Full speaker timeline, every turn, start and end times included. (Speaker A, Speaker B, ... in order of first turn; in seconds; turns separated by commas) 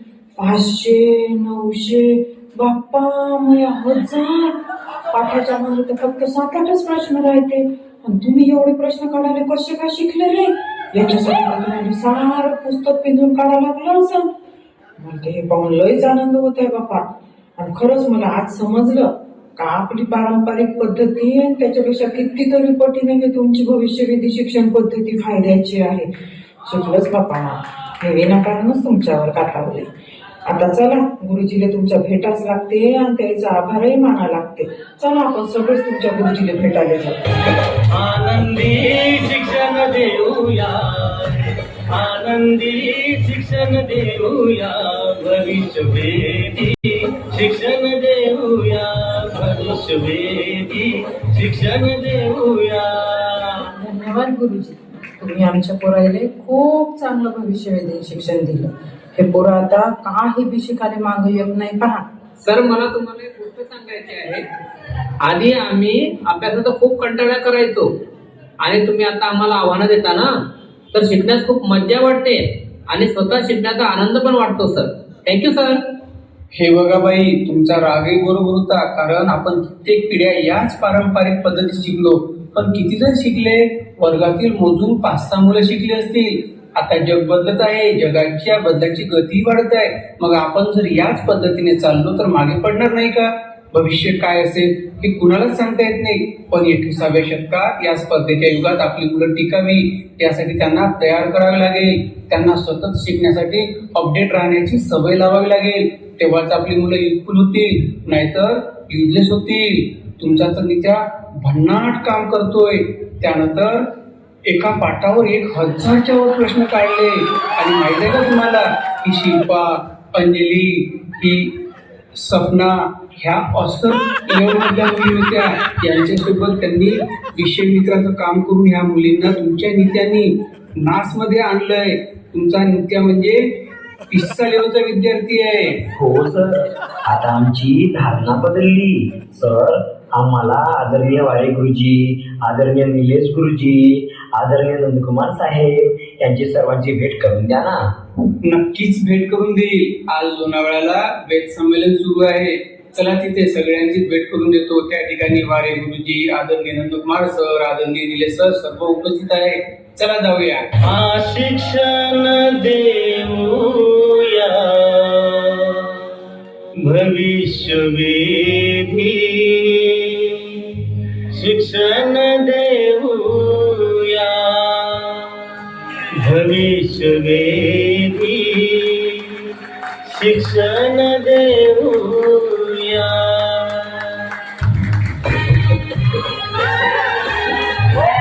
Speaker A: 0.4-4.5, Speaker A: 5.1-14.3, Speaker A: 15.0-17.1, Speaker A: 17.6-26.1, Speaker A: 26.7-29.9, Speaker A: 30.5-37.2, Speaker B: 37.9-53.7, Speaker A: 53.8-62.0, Speaker C: 62.4-64.4, Speaker C: 65.2-67.9, Speaker C: 68.6-70.3, Speaker C: 70.9-75.8, Speaker D: 76.5-113.9, Speaker D: 114.5-121.5, Speaker D: 122.2-130.3, Speaker D: 130.8-133.4, Speaker D: 134.1-135.8, Speaker E: 136.0-136.5, Speaker E: 137.1-147.8, Speaker D: 148.4-160.6, Speaker B: 160.8-166.1, Speaker B: 166.8-184.3